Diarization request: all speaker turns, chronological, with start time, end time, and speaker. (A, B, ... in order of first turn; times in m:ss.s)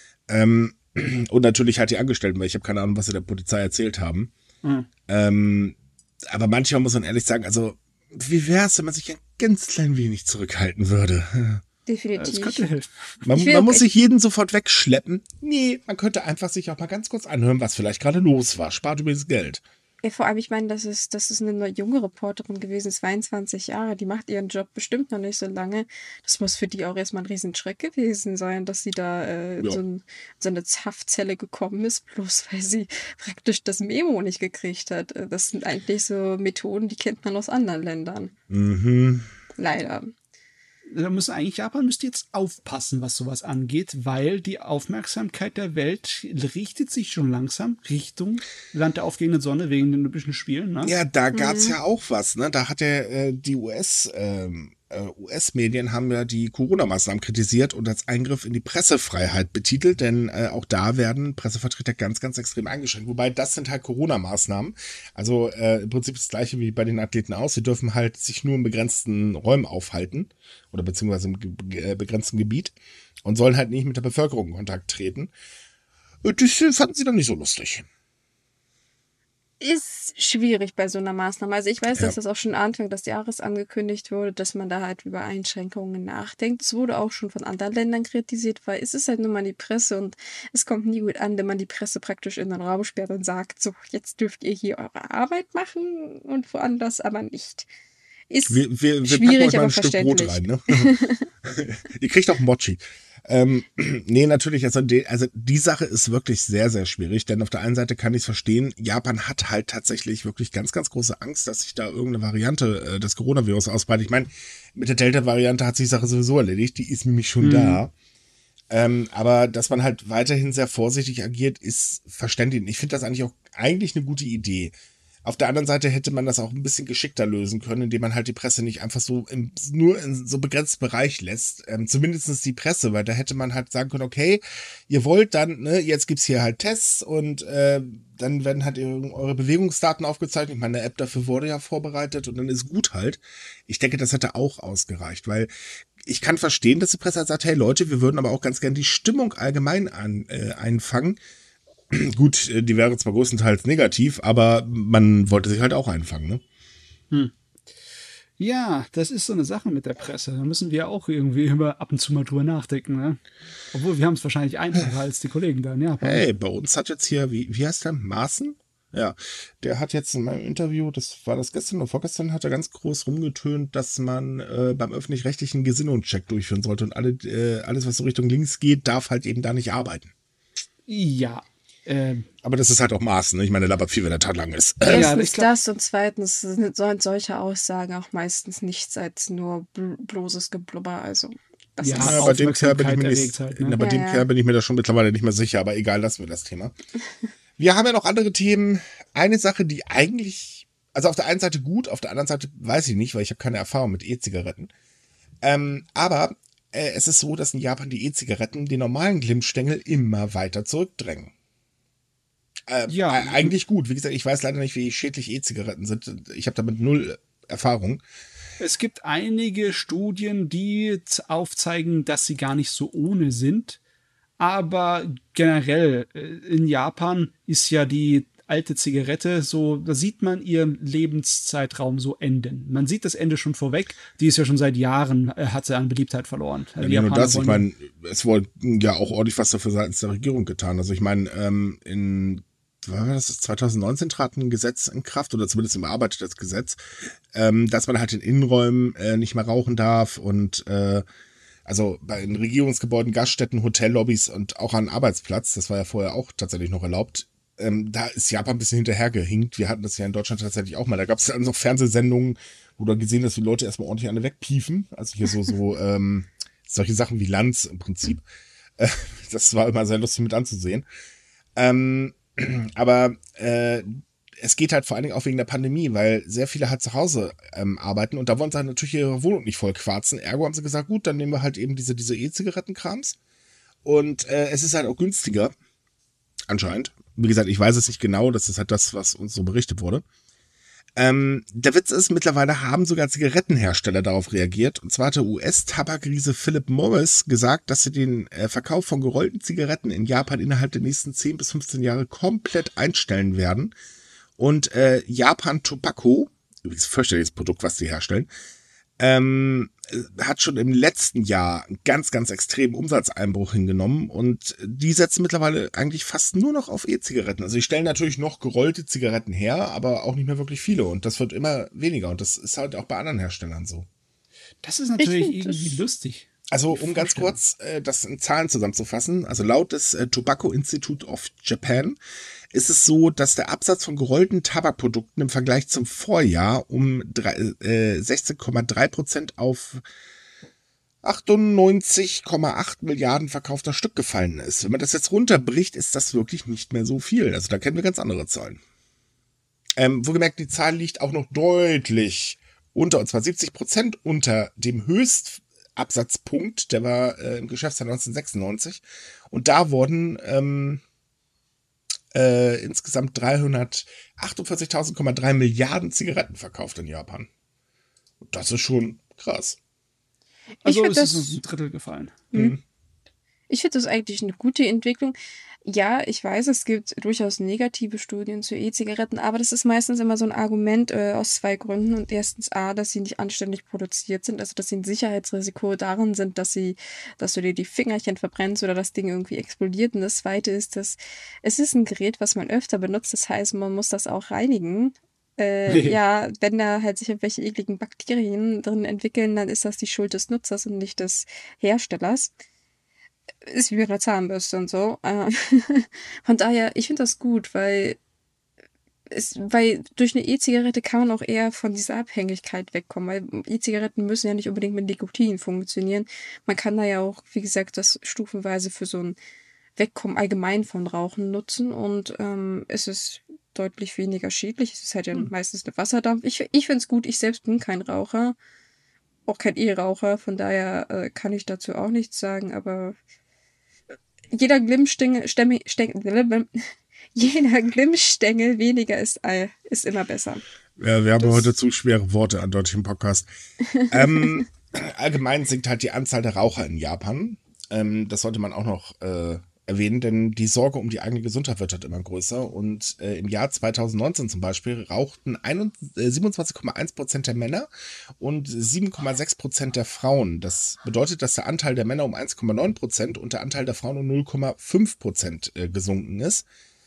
0:00.3-0:04.3 A
0:04.6-0:04.9 B
0:05.1-0:11.6 A
0:11.9-0:12.7 C
0:12.2-0:13.2 B
0:13.2-0:19.6 A
0:13.3-0:13.8 C
0:20.0-0:38.3 C
0:38.5-0:39.3 A
0:39.6-0:40.1 C
0:40.9-0:50.9 B
0:50.8-1:15.3 A
0:51.3-0:51.7 C
1:16.2-1:17.8 A
1:19.6-1:37.7 C
1:38.3-1:41.3 C
1:38.5-1:40.9 A
1:41.4-1:57.9 A
1:57.4-1:57.8 B
1:58.7-2:04.7 A
2:05.2-2:25.5 A
2:26.0-2:31.2 A
2:31.9-2:36.4 A
2:38.4-2:43.2 B
2:43.7-2:46.2 B
2:46.0-3:00.1 A
3:00.9-3:02.3 B
3:02.4-3:05.1 A
3:04.9-3:05.5 B
3:04.9-3:12.3 C
3:11.8-3:13.8 B
3:12.0-3:16.7 A
3:13.8-3:14.3 C
3:17.6-3:24.7 A
3:25.4-3:31.3 A
3:32.7-3:38.0 A
3:32.9-3:33.5 B
3:38.6-3:43.8 B
3:44.4-3:57.6 B
3:56.8-4:11.0 A
4:11.6-4:28.2 A
4:28.8-4:30.8 A
4:31.6-4:43.2 A
4:43.8-4:45.5 A
4:46.5-4:50.0 A
4:51.0-5:03.7 A
5:04.4-5:08.3 A
5:09.0-5:23.9 A
5:24.6-5:27.3 B
5:25.0-5:25.8 C
5:26.5-5:32.0 A
5:32.5-5:39.8 A
5:41.0-5:48.6 A
5:49.8-6:00.8 A
6:02.1-6:07.3 A
6:08.2-6:09.6 A
6:10.6-6:11.4 C
6:10.6-6:12.2 B
6:12.3-6:12.6 A
6:13.5-6:42.3 C
6:35.7-6:36.0 B
6:43.4-6:48.0 C
6:49.1-6:59.2 C
6:59.8-7:08.4 C
7:09.3-7:13.0 C
7:14.3-7:16.6 C
7:17.1-7:20.4 C
7:20.8-7:23.3 A
7:23.7-7:24.4 C
7:23.9-7:37.7 A
7:38.2-7:46.4 A